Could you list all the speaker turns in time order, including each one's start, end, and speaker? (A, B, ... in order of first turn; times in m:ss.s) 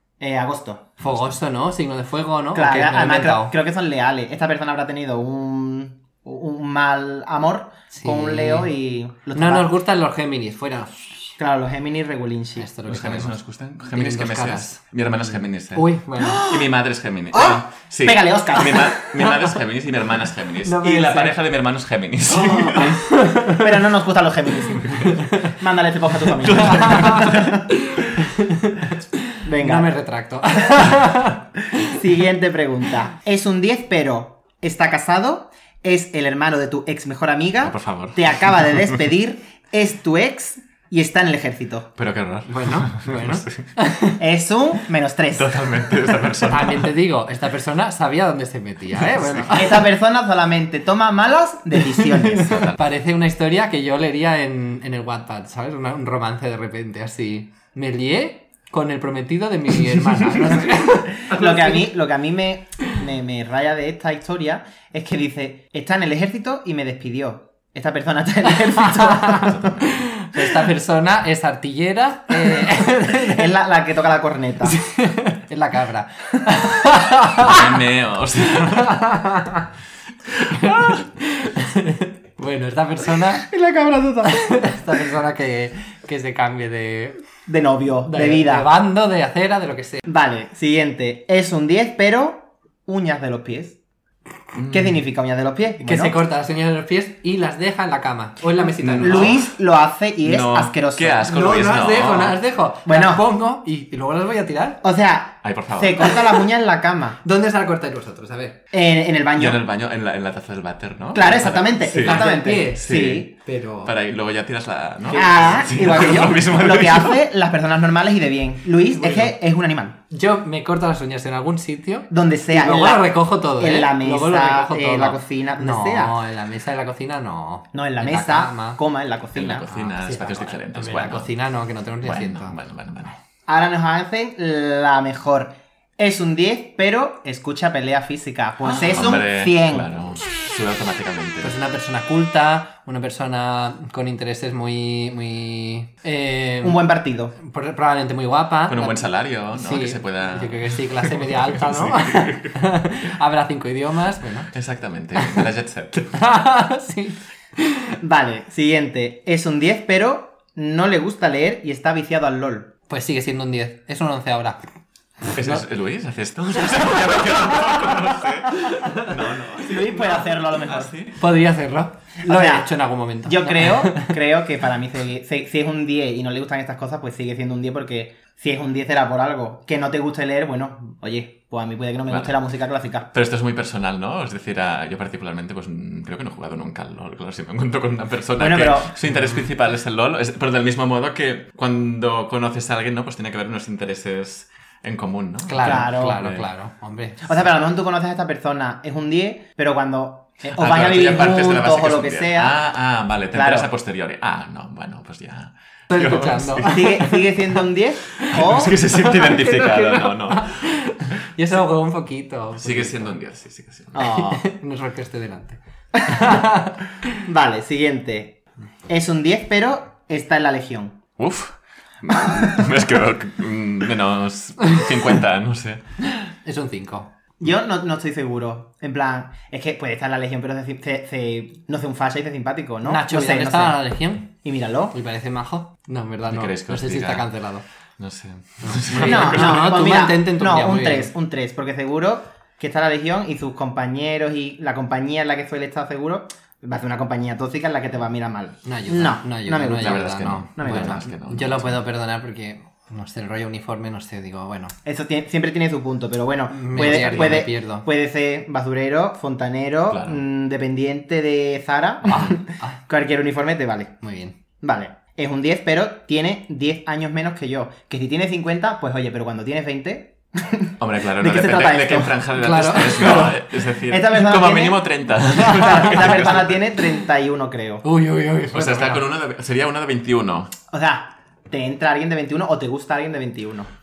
0:00.2-0:01.0 A
0:01.0-0:03.5 B
0:01.0-0:01.4 C
0:02.5-0:09.7 A
0:07.9-0:08.7 B
0:09.3-0:11.4 B
0:11.4-0:12.7 A
0:12.6-0:13.4 B
0:12.9-0:23.0 C
0:13.9-0:14.8 B
0:15.7-0:16.5 B
0:16.2-0:16.7 A
0:17.3-0:19.2 A
0:20.6-0:21.4 B
0:22.4-0:27.7 A
0:22.7-0:23.6 B
0:24.7-0:25.4 C
0:25.1-0:25.5 B
0:26.4-0:27.6 C
0:26.6-0:27.4 B
0:27.9-0:31.9 B
0:29.4-0:29.9 A
0:31.8-0:41.9 A
0:37.6-0:39.0 C
0:42.0-0:43.5 C
0:42.5-0:44.2 B
0:44.2-0:45.7 A
0:45.3-0:46.9 C
0:46.5-0:49.8 B
0:49.1-0:49.5 C
0:49.5-0:52.7 A
0:52.4-1:01.9 B
0:52.4-0:52.8 C
1:01.3-1:09.7 A
1:09.1-1:13.5 B
1:09.4-1:10.0 C
1:13.1-1:14.8 A
1:14.6-1:17.7 B
1:17.4-1:19.1 C
1:18.7-1:19.7 B
1:20.4-1:21.0 C
1:20.5-1:23.5 B
1:23.4-1:25.0 A
1:24.3-1:27.2 B
1:27.5-1:28.7 A
1:28.1-1:30.0 B
1:30.1-1:33.8 A
1:34.6-1:35.0 C
1:34.7-1:36.2 A
1:35.8-1:39.4 B
1:38.8-1:39.6 C
1:39.0-1:41.3 A
1:40.2-1:42.4 C
1:41.2-1:44.8 B
1:42.9-1:43.2 A
1:44.8-1:47.2 A
1:45.4-1:46.1 C
1:46.0-1:46.4 B
1:47.2-1:48.6 B
1:48.7-1:49.6 A
1:49.4-1:53.3 C
1:51.2-1:53.3 A
1:52.0-1:53.9 B
1:53.8-1:57.2 C
1:55.1-2:00.0 A
1:55.1-1:55.7 B
1:59.0-1:59.3 B
2:00.1-2:08.8 B
2:02.1-2:06.2 A
2:07.7-2:09.7 A
2:09.4-2:11.3 C
2:09.7-2:12.6 B
2:12.0-2:13.2 C
2:13.5-2:19.9 A
2:18.6-2:19.0 B
2:18.9-2:21.5 C
2:21.4-2:26.8 B
2:26.6-2:27.4 A
2:27.4-2:34.5 B
2:28.7-2:32.6 C
2:34.5-2:36.2 C
2:36.1-2:38.0 B
2:38.0-2:42.7 A
2:42.9-2:44.6 B
2:45.3-2:45.6 B
2:45.4-2:51.2 C
2:47.4-2:47.8 B
2:48.5-2:49.1 B
2:49.5-2:51.0 A
2:51.2-2:54.2 B
2:52.2-2:52.7 A
2:53.2-3:03.1 A
3:02.1-3:02.4 C
3:03.1-3:16.4 C
3:08.4-3:09.0 A
3:15.5-3:17.4 B
3:15.6-3:16.2 A
3:17.2-3:22.6 A
3:20.5-3:27.1 C
3:23.3-3:23.7 A
3:25.9-3:27.2 B
3:26.6-3:28.8 A
3:28.2-3:30.8 C
3:28.9-3:33.1 B
3:32.6-3:34.1 C
3:33.9-3:34.4 A
3:34.0-3:37.1 B
3:36.0-3:36.4 A
3:37.2-3:41.0 A
3:41.2-3:45.8 C
3:46.4-3:47.1 B
3:47.4-3:53.8 A
3:52.8-3:54.3 B
3:54.4-3:55.0 A
3:54.9-3:57.6 B
3:56.3-3:57.3 C
3:58.0-3:59.7 C
3:58.6-4:01.1 B
3:59.0-4:11.1 A
4:08.6-4:14.7 B
4:09.8-4:11.8 C
4:14.8-4:24.0 A
4:16.5-4:17.9 B
4:16.9-4:17.4 C
4:19.9-4:20.2 C
4:22.1-4:22.4 C
4:22.1-4:22.8 B
4:24.0-4:24.4 B
4:24.6-4:32.2 A
4:30.8-4:36.6 C
4:32.4-4:33.3 B
4:32.9-4:37.8 A
4:37.8-4:39.0 B
4:38.5-4:40.5 C
4:40.7-4:43.7 A